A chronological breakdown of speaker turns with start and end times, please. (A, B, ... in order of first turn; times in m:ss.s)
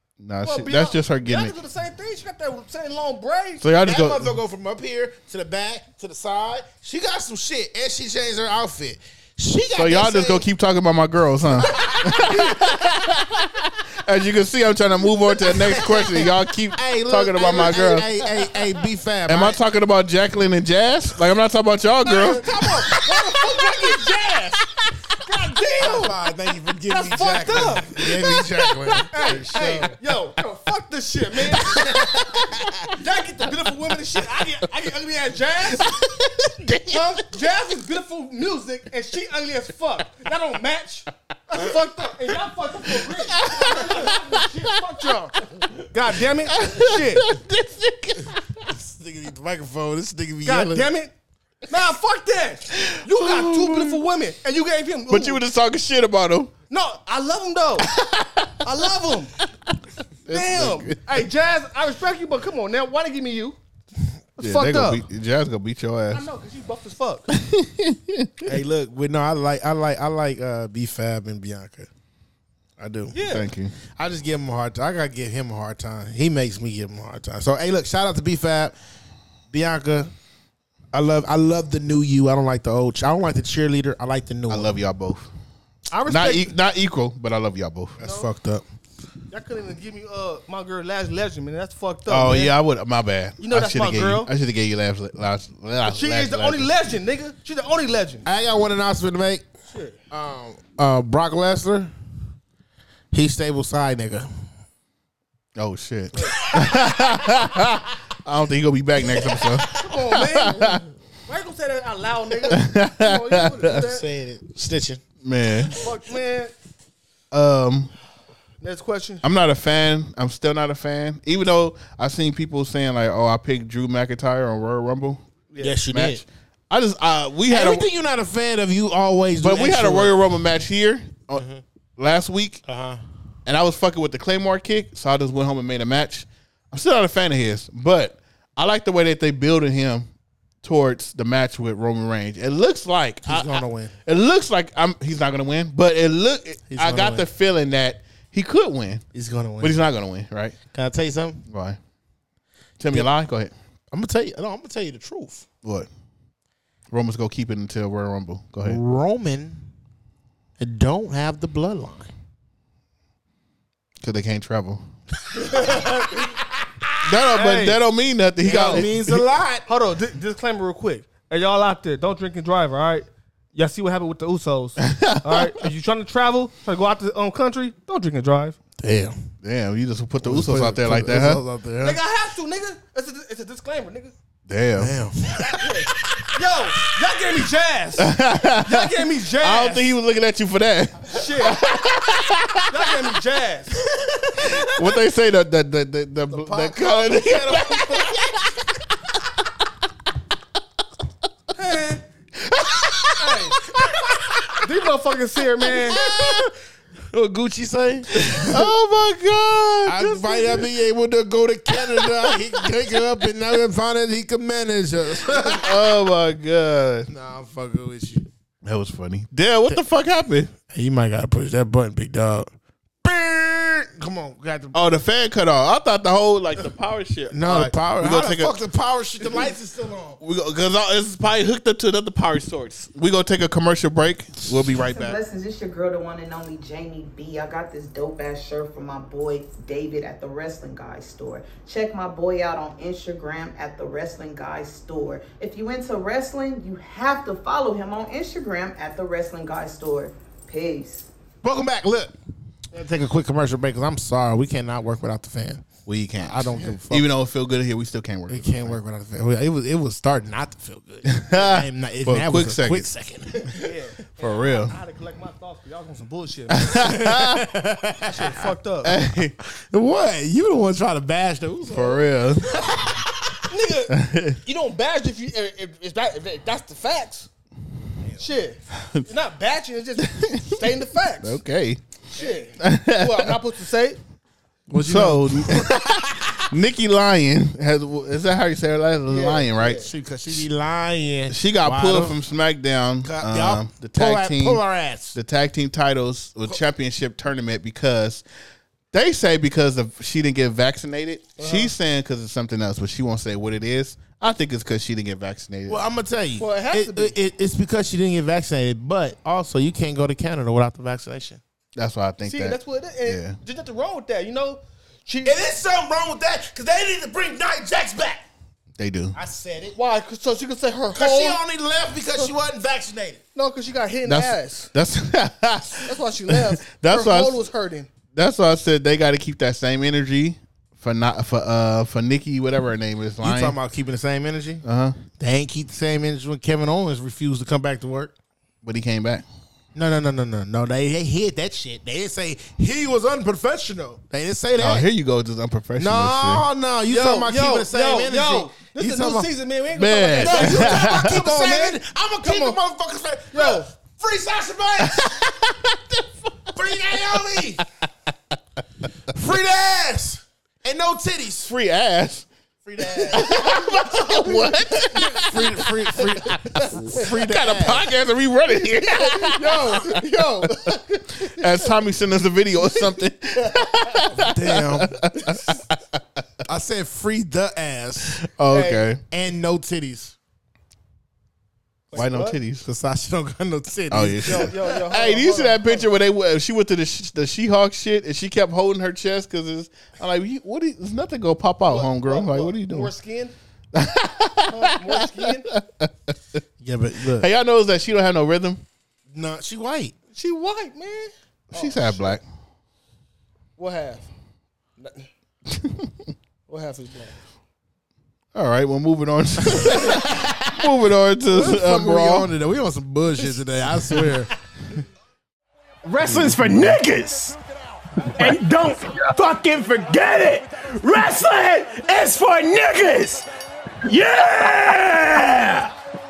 0:00.2-0:01.6 A
0:00.4-0:03.6 B
0:03.6-0:04.4 A
0:03.8-0:10.5 C
0:09.8-0:18.5 A
0:11.5-0:12.6 C
0:15.5-0:19.6 C
0:19.3-0:23.9 A
0:22.0-0:24.5 B
0:22.9-0:24.5 C
0:25.2-0:26.2 B
0:25.8-0:30.0 C
0:26.9-0:28.1 B
0:28.0-0:29.9 A
0:29.1-0:32.0 B
0:31.6-0:32.7 C
0:31.8-0:32.7 A
0:33.0-0:35.9 B
0:35.7-0:37.2 A
0:36.9-0:47.3 B
0:43.1-0:44.9 A
0:46.3-0:48.6 A
0:48.7-0:50.9 C
0:50.4-0:51.1 B
0:51.7-0:55.4 B
0:52.8-0:54.0 A
0:55.1-0:56.6 A
0:56.7-0:57.9 B
0:57.8-0:58.7 A
0:58.6-0:59.4 B
0:59.7-1:01.2 A
1:00.3-1:03.6 B
1:04.4-1:05.0 B
1:04.4-1:06.2 A
1:06.1-1:07.3 B
1:07.3-1:08.5 A
1:08.4-1:11.9 C
1:12.8-1:13.2 C
1:13.1-1:13.5 B
1:13.3-1:13.8 A
1:14.0-1:18.8 C
1:19.5-1:20.1 C
1:20.9-1:24.8 C
1:24.5-1:25.3 A
1:25.9-1:26.5 B
1:26.1-1:28.0 A
1:28.0-1:28.6 C
1:28.0-1:28.3 B
1:29.3-1:32.5 B
1:32.1-1:36.7 A
1:33.4-1:34.3 B
1:35.8-1:38.3 B
1:38.2-1:39.4 C
1:39.7-1:40.0 B
1:40.1-1:41.9 C
1:43.1-1:44.3 C
1:45.6-1:50.8 A
1:46.1-1:46.4 B
1:46.2-1:47.4 C
1:49.0-1:49.8 C
1:49.8-1:54.0 B
1:52.5-1:53.8 A
1:53.7-1:55.0 C
1:55.2-1:55.8 A
1:55.8-1:56.5 B
1:57.3-1:57.9 A
1:58.6-1:59.2 B
1:59.2-2:05.2 A
2:05.5-2:05.8 B
2:05.6-2:06.2 C
2:05.9-2:07.9 A
2:07.5-2:10.2 C
2:09.4-2:11.4 A
2:11.3-2:11.6 C
2:12.0-2:12.6 A
2:12.7-2:13.0 C
2:13.5-2:20.1 A
2:20.6-2:29.0 A
2:23.3-2:24.0 C
2:26.7-2:27.3 C
2:29.1-2:29.8 C
2:29.6-2:30.6 A
2:30.7-2:31.4 C
2:31.5-2:31.8 A
2:32.8-2:33.5 A
2:33.9-2:35.5 C
2:35.6-2:35.9 A
2:36.9-2:38.8 A
2:38.6-2:39.7 C
2:40.6-2:42.1 C
2:44.0-2:44.8 A
2:45.4-2:46.3 B
2:45.4-2:46.8 C
2:47.0-2:49.2 A
2:47.3-2:47.8 B
2:48.4-2:49.7 C
2:49.7-2:58.6 B
2:54.8-2:55.6 A
2:58.8-2:59.2 C
2:59.4-3:01.4 A
3:00.2-3:02.0 C
3:01.8-3:04.1 B
3:04.5-3:05.0 A
3:04.8-3:06.1 C
3:05.5-3:09.9 B
3:08.0-3:12.9 A
3:11.1-3:11.6 B
3:12.7-3:13.8 B
3:14.0-3:14.7 C
3:14.4-3:18.6 A
3:16.3-3:18.4 C
3:21.6-3:22.0 B
3:22.4-3:24.6 A
3:23.2-3:23.6 B
3:24.2-3:24.4 C
3:24.6-3:26.0 B
3:25.7-3:26.5 C
3:25.9-3:26.4 A
3:27.1-3:28.6 C
3:28.1-3:30.7 A
3:29.9-3:35.9 C
3:31.7-3:33.0 A
3:35.3-3:37.1 A
3:37.1-3:38.3 C
3:38.6-3:40.5 A
3:40.7-3:42.5 C
3:43.0-3:44.8 C
3:44.7-3:48.6 A
3:47.3-3:50.2 C
3:49.2-3:49.5 A
3:50.2-3:55.2 A
3:54.8-4:11.1 D
4:11.4-4:12.1 C
4:12.7-4:15.6 C
4:15.9-4:18.8 A
4:16.2-4:17.1 C
4:18.3-4:23.6 C
4:21.0-4:22.9 A
4:23.6-4:26.9 B
4:24.2-4:24.8 A
4:26.5-4:27.4 A
4:26.8-4:28.3 C
4:28.1-4:29.0 B
4:28.8-4:29.4 A
4:29.5-4:33.4 C
4:31.7-4:32.5 A
4:33.5-4:37.3 B
4:33.9-4:34.4 A
4:38.2-4:41.4 B
4:40.0-4:40.7 A
4:41.2-4:41.8 A
4:42.1-4:44.0 B
4:42.6-4:43.4 A
4:44.7-4:46.4 C
4:44.8-4:50.5 A
4:49.1-4:49.9 B
4:49.8-4:52.2 C
4:51.3-4:54.6 A
4:53.0-4:55.2 C
4:55.2-4:58.2 A
4:58.9-5:05.8 A
5:01.4-5:01.7 B
5:05.7-5:11.4 C
5:06.4-5:07.2 B
5:11.8-5:13.4 A
5:12.2-5:15.4 B
5:15.2-5:18.2 C
5:18.8-5:19.2 A
5:19.1-5:19.8 C
5:19.8-5:21.4 B
5:20.9-5:23.2 C
5:23.4-5:24.7 B
5:24.0-5:27.4 A
5:25.8-5:27.9 B
5:28.1-5:33.6 A
5:33.2-5:34.6 C
5:34.6-5:35.0 A
5:35.2-5:38.1 C
5:38.6-5:39.3 A
5:39.8-5:44.9 C
5:44.6-5:46.4 A
5:45.8-5:49.3 C
5:46.9-5:52.6 B
5:49.7-5:51.2 A
5:50.2-5:55.1 C
5:53.3-5:53.7 B
5:54.8-5:57.4 A
5:56.5-5:57.6 C
5:59.1-6:01.5 C
6:01.4-6:02.3 A
6:02.6-6:03.3 C
6:03.1-6:05.7 A
6:05.1-6:07.9 C
6:06.5-6:16.0 A
6:09.4-6:10.5 C
6:09.4-6:10.7 B
6:14.1-6:14.9 C
6:16.5-6:18.2 C
6:18.1-6:19.0 A
6:18.5-6:18.9 B
6:19.1-6:20.2 C
6:21.9-6:22.4 B
6:21.9-6:22.7 A
6:22.6-6:24.5 C
6:23.9-6:32.9 A
6:24.2-6:25.9 B
6:31.7-6:33.4 B
6:33.7-6:36.1 A
6:34.5-6:35.5 B
6:36.6-6:37.3 C
6:37.2-6:38.6 A
6:39.1-6:40.0 C
6:40.1-6:42.2 B
6:41.5-6:42.2 A
6:43.6-6:44.1 B
6:44.8-6:45.1 B
6:45.5-6:45.9 A
6:46.5-6:47.2 B
6:48.3-6:52.3 A
6:49.5-6:50.5 C
6:51.3-6:54.3 C
6:55.9-6:57.4 E
6:55.9-6:56.8 C
6:56.0-6:56.8 A
6:58.1-7:03.3 E
7:03.8-7:05.7 E